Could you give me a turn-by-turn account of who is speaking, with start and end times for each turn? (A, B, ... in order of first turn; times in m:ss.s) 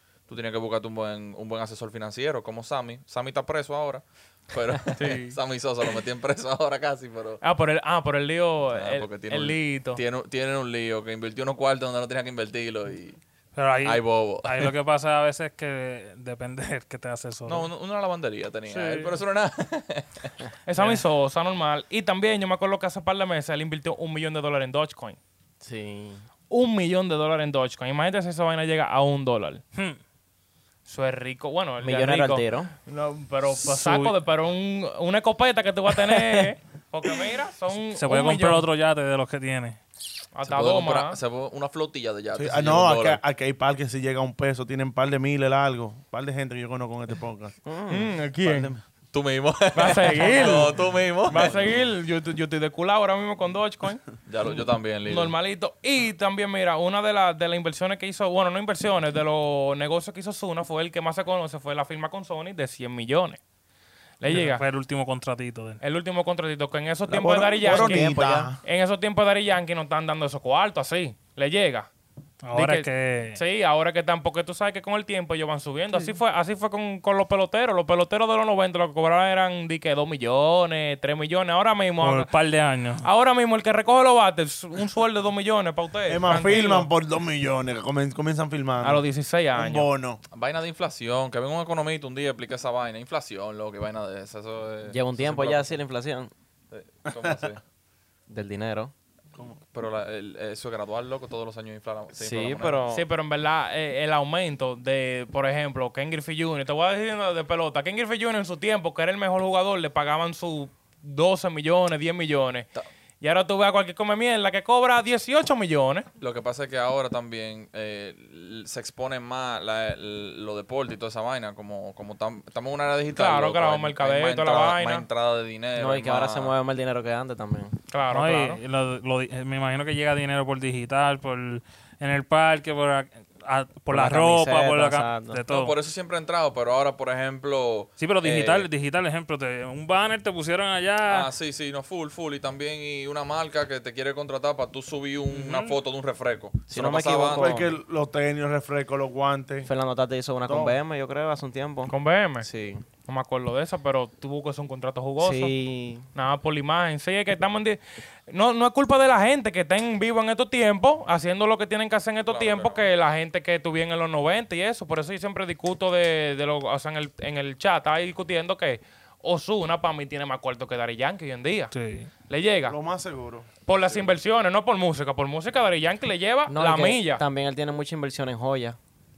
0:00.3-0:07.4 A
0:05.0-0:05.4 B
0:07.4-0:10.0 B
0:08.7-0:13.2 A
0:13.6-0:17.7 C
0:13.8-0:14.7 A
0:17.4-0:20.4 A
0:18.7-0:19.1 B
0:20.6-0:25.2 B
0:20.8-0:21.0 C
0:25.6-0:26.2 D
0:26.5-0:29.6 B
0:30.8-0:38.7 B
0:31.8-0:32.7 D
0:33.5-0:34.2 C
0:36.1-0:36.4 D
0:38.0-0:39.8 C
0:40.3-0:41.2 B
0:40.4-0:43.2 A
0:42.3-0:47.6 E
0:47.6-0:48.1 D
0:47.9-0:48.7 B
0:48.4-0:48.8 E
0:49.1-0:51.8 A
0:49.7-0:50.7 B
0:51.3-0:54.0 B
0:54.3-0:55.3 A
0:55.1-1:03.4 B
1:04.2-1:04.6 B
1:04.3-1:05.8 C
1:05.8-1:11.9 B
1:07.1-1:08.6 E
1:07.6-1:08.5 D
1:12.4-1:13.4 C
1:12.5-1:22.3 B
1:22.0-1:23.1 C
1:23.0-1:26.9 B
1:26.1-1:30.2 E
1:28.8-1:29.9 B
1:30.3-1:35.8 A
1:34.9-1:36.3 D
1:36.7-1:37.6 A
1:37.1-1:37.5 E
1:38.3-1:38.9 D
1:39.7-1:42.8 A
1:42.1-1:43.0 D
1:42.9-1:52.7 B
1:53.2-1:56.1 B
1:56.2-2:06.6 A
2:03.1-2:05.0 B
2:05.8-2:07.8 D
2:07.9-2:08.6 B
2:08.1-2:15.8 C
2:13.9-2:15.4 D
2:15.5-2:18.7 A
2:18.0-2:21.3 C
2:21.1-2:27.6 A
2:25.4-2:25.7 C
2:26.7-2:27.7 D
2:27.3-2:29.7 E
2:29.6-2:32.8 D
2:30.4-2:30.8 E
2:31.9-2:32.5 B
2:33.0-2:35.5 B
2:35.2-2:36.1 D
2:36.1-2:51.7 B
2:42.3-2:42.8 A
2:51.7-2:52.1 C
2:52.3-2:52.8 B
2:52.6-2:53.5 E
2:53.6-2:57.2 B
2:53.7-2:54.0 A
2:56.5-2:58.8 D